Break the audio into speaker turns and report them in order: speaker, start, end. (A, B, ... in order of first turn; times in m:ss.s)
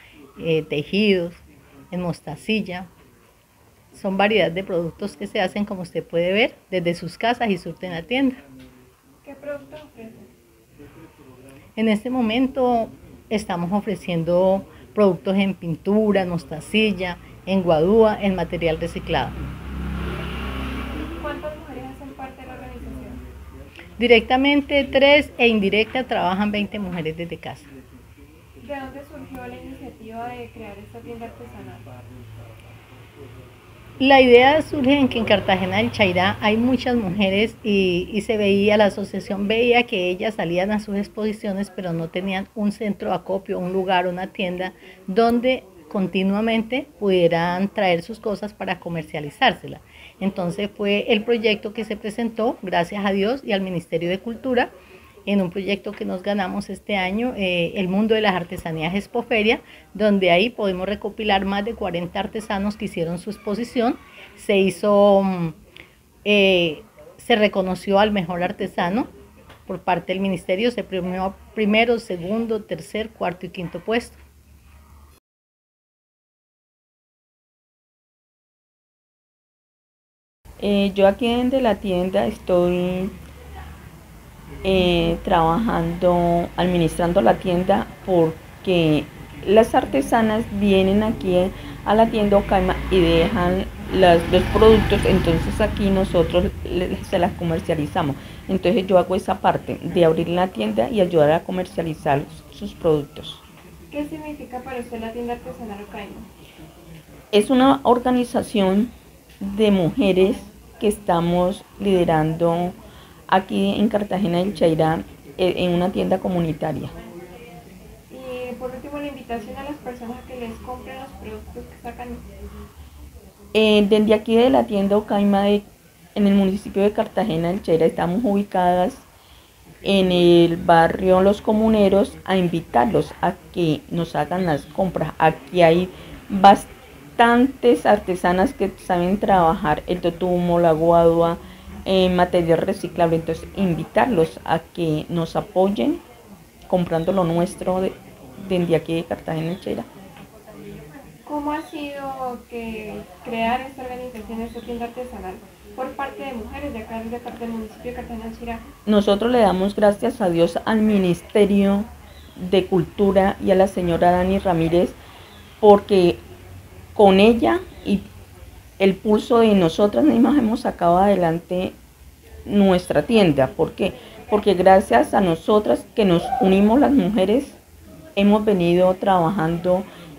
0:00.4-0:02.9 A
0:03.9-0:08.4 A
0:09.2-0:10.3 B
0:11.8-0:19.4 A
0:21.2-0:23.2 B
0:24.0-0:27.7 A
0:28.6-0:31.9 B
0:34.0-0:54.7 A
0:55.3-1:05.6 A
1:06.2-1:09.1 A
1:09.7-1:14.2 A
1:20.6-1:23.2 C
1:24.6-1:43.4 C
1:43.9-1:46.3 B
1:47.3-1:52.8 C
1:53.3-1:56.9 C
1:58.1-2:02.2 B
2:03.5-2:09.1 C
2:09.8-2:26.0 C
2:26.7-2:29.9 C
2:31.3-2:38.6 B
2:38.9-2:45.0 C
2:45.6-2:46.2 C
2:47.0-2:48.0 C
2:48.8-2:51.8 C
2:52.4-2:57.6 C
2:58.2-2:59.9 C